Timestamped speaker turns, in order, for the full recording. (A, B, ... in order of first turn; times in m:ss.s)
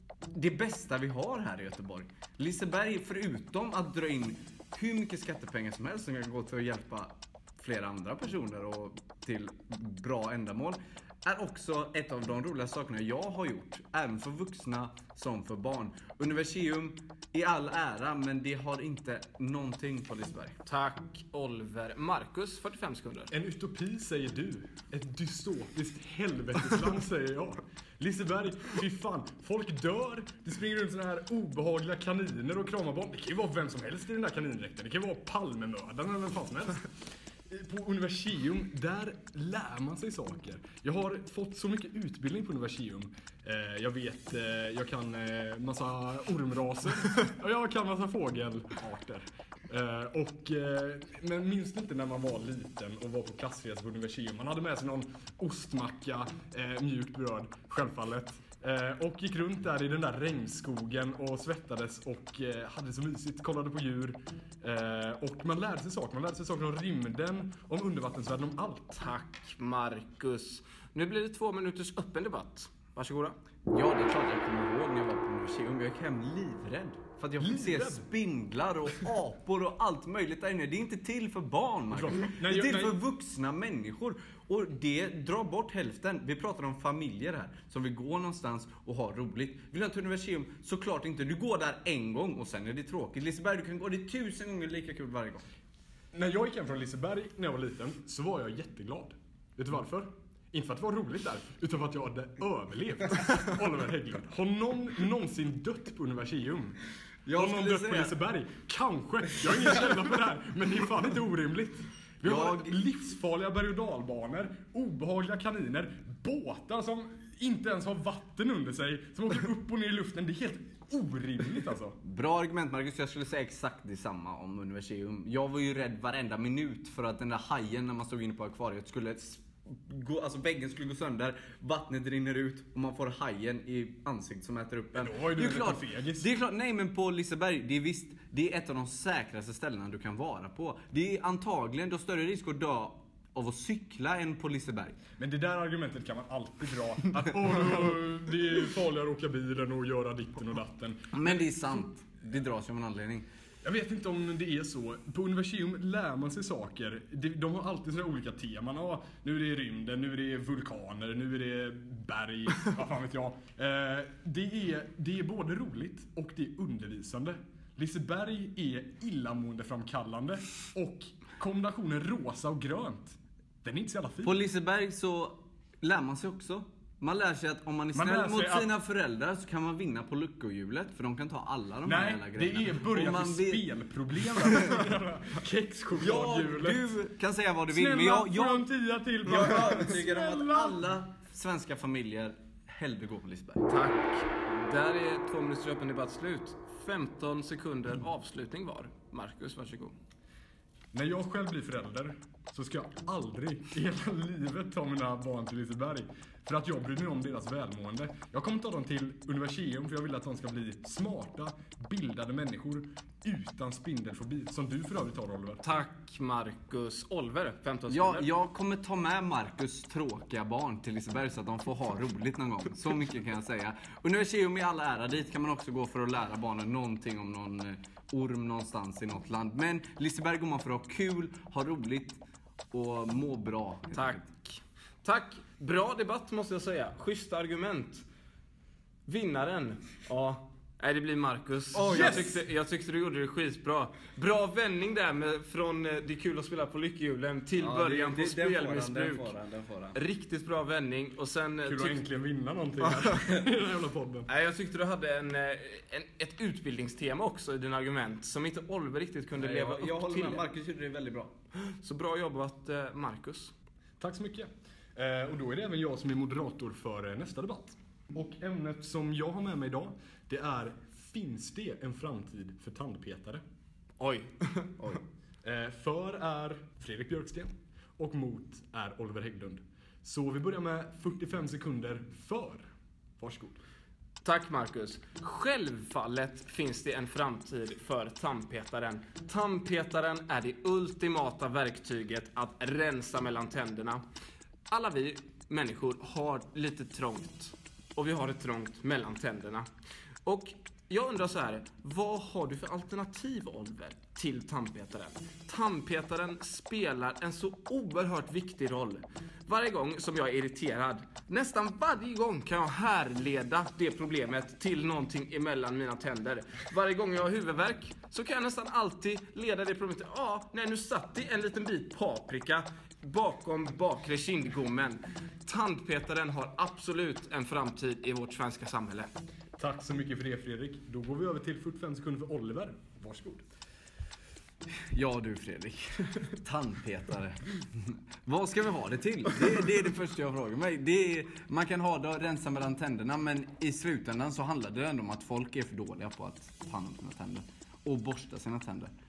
0:00.3-0:20.6 A
0:20.6-0:23.3 B
0:23.3-0:36.9 C
0:37.5-1:09.0 C
1:08.9-1:13.4 B
1:13.7-1:35.4 A
1:17.4-1:18.1 C
1:21.9-1:23.0 C
1:36.1-1:46.8 C
1:47.2-1:48.2 A
1:47.3-2:02.0 C
1:52.2-1:52.8 A
2:02.0-2:25.0 A
2:14.9-2:16.3 C
2:25.2-2:31.4 C
2:31.1-2:33.2 A
2:33.6-2:54.4 C
2:54.2-3:03.7 A
2:57.9-2:58.7 C
3:01.8-3:07.0 C
3:04.2-3:04.8 A
3:06.0-3:08.7 A
3:07.7-3:10.8 C
3:09.2-3:13.6 A
3:13.7-3:19.9 B
3:20.9-3:35.6 C
3:35.6-3:38.3 B
3:37.9-3:54.2 A
3:53.9-3:58.0 B
3:59.1-4:09.3 B
4:01.7-4:02.3 A
4:01.9-4:02.4 C
4:07.6-4:10.0 A
4:09.9-4:12.0 B
4:11.6-4:14.3 C
4:14.3-4:20.4 B
4:19.4-4:21.3 A
4:21.5-4:23.5 B
4:24.0-4:33.4 C
4:34.0-4:35.0 B
4:35.4-4:42.6 C
4:43.2-4:43.6 C
4:44.2-4:54.0 B
4:54.7-4:59.7 B
5:00.2-5:29.1 B
5:29.6-5:33.4 C
5:34.9-5:48.9 A